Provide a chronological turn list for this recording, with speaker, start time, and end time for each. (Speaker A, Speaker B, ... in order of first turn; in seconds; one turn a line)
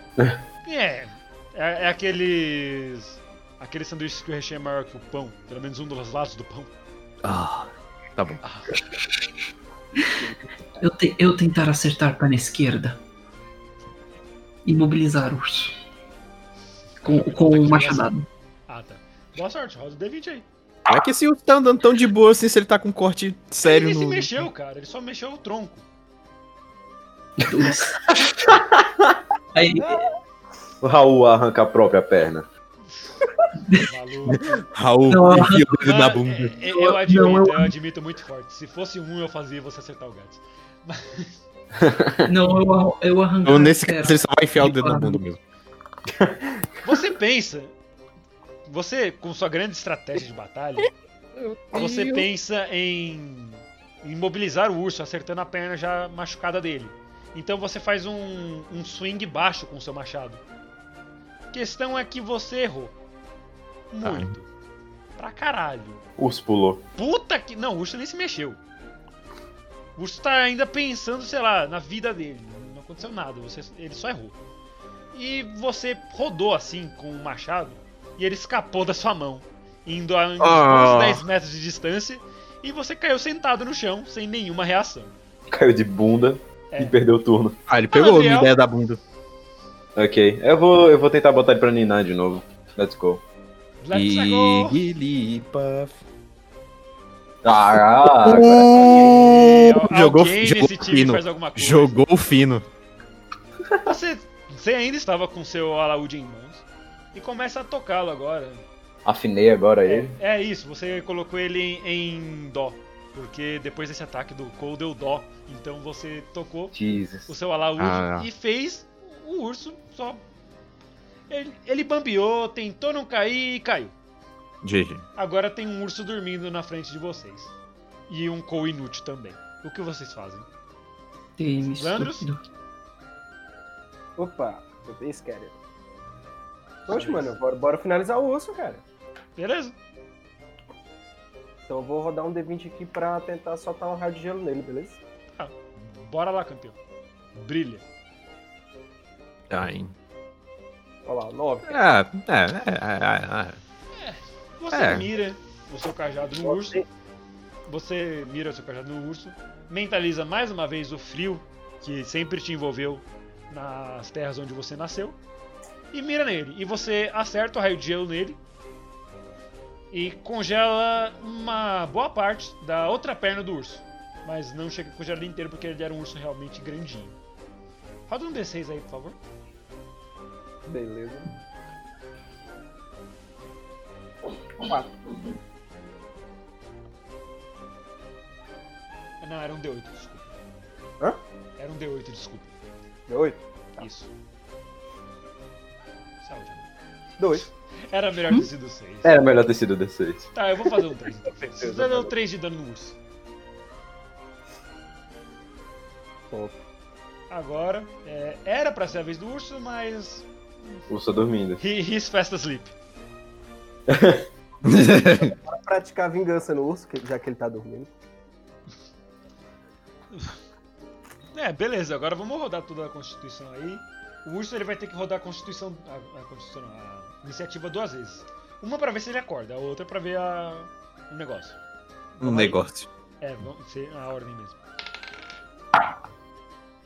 Speaker A: 0.6-6.7
Speaker B: 7.2-8.4
Speaker A: 8.4-8.8
Speaker C: 10.8-13.0
Speaker C: 14.6-15.7
Speaker A: 17.0-18.1
Speaker C: 17.0-18.2
Speaker A: 18.7-20.4
Speaker B: 20.9-24.4
Speaker A: 23.6-25.8
Speaker C: 27.4-28.2
Speaker C: 29.5-30.1
Speaker D: 30.8-32.5
Speaker A: 33.9-34.5
Speaker B: 34.3-36.5
Speaker C: 35.1-35.8
Speaker A: 35.8-41.4
Speaker C: 36.7-37.7
Speaker D: 41.8-42.3
Speaker C: 42.2-45.2
Speaker B: 43.4-45.4
Speaker A: 46.8-47.7
Speaker A: 48.6-50.9
Speaker B: 51.5-52.2
Speaker A: 51.7-60.4
Speaker A: 61.5-62.9
Speaker A: 63.9-64.5
Speaker B: 64.0-64.3
Speaker A: 65.2-66.0
Speaker D: 66.2-66.8
Speaker A: 67.0-68.6
Speaker A: 70.0-74.3
Speaker A: 75.1-85.1
Speaker B: 80.4-81.2
Speaker D: 85.5-87.6
Speaker A: 86.7-87.0
Speaker B: 87.7-89.0
Speaker A: 87.9-88.5
Speaker D: 90.0-93.2
Speaker A: 93.8-94.8
Speaker B: 93.9-96.0
Speaker D: 97.4-98.7
Speaker B: 98.1-102.6
Speaker A: 98.7-102.0
Speaker A: 103.8-108.6
Speaker D: 109.0-110.2
Speaker A: 109.8-116.7
Speaker D: 116.7-117.3
Speaker A: 117.3-120.2
Speaker B: 117.8-118.3
Speaker A: 121.3-123.9
Speaker B: 124.6-125.0
Speaker A: 125.2-127.5
Speaker A: 128.1-130.5
Speaker C: 131.4-132.4
Speaker A: 131.7-132.3
Speaker E: 134.2-135.6
Speaker E: 136.9-138.8
Speaker A: 136.9-137.3
Speaker A: 139.4-139.8
Speaker E: 141.7-145.0
Speaker A: 145.3-146.8
Speaker A: 147.3-147.8
Speaker B: 149.5-149.9
Speaker E: 151.1-151.7
Speaker B: 151.7-153.6
Speaker A: 154.0-156.8
Speaker B: 154.7-155.1
Speaker E: 156.4-156.8
Speaker A: 157.7-165.2
Speaker A: 165.9-168.4
Speaker A: 169.9-177.2
Speaker A: 178.1-179.2
Speaker E: 180.7-181.3
Speaker E: 184.6-184.9
Speaker A: 189.2-190.3
Speaker A: 191.6-192.5
Speaker E: 193.1-193.8
Speaker A: 193.8-194.1
Speaker A: 196.2-196.7
Speaker E: 197.2-197.4
Speaker A: 197.9-199.2
Speaker D: 199.0-200.3
Speaker A: 200.3-202.9
Speaker E: 201.6-202.1
Speaker E: 206.3-206.6
Speaker A: 207.3-210.8
Speaker D: 210.9-211.6
Speaker A: 211.6-212.7
Speaker D: 213.9-214.2
Speaker B: 214.6-215.3
Speaker E: 215.4-217.9
Speaker A: 221.3-231.6
Speaker A: 232.2-232.6
Speaker B: 232.2-232.9
Speaker A: 233.2-234.6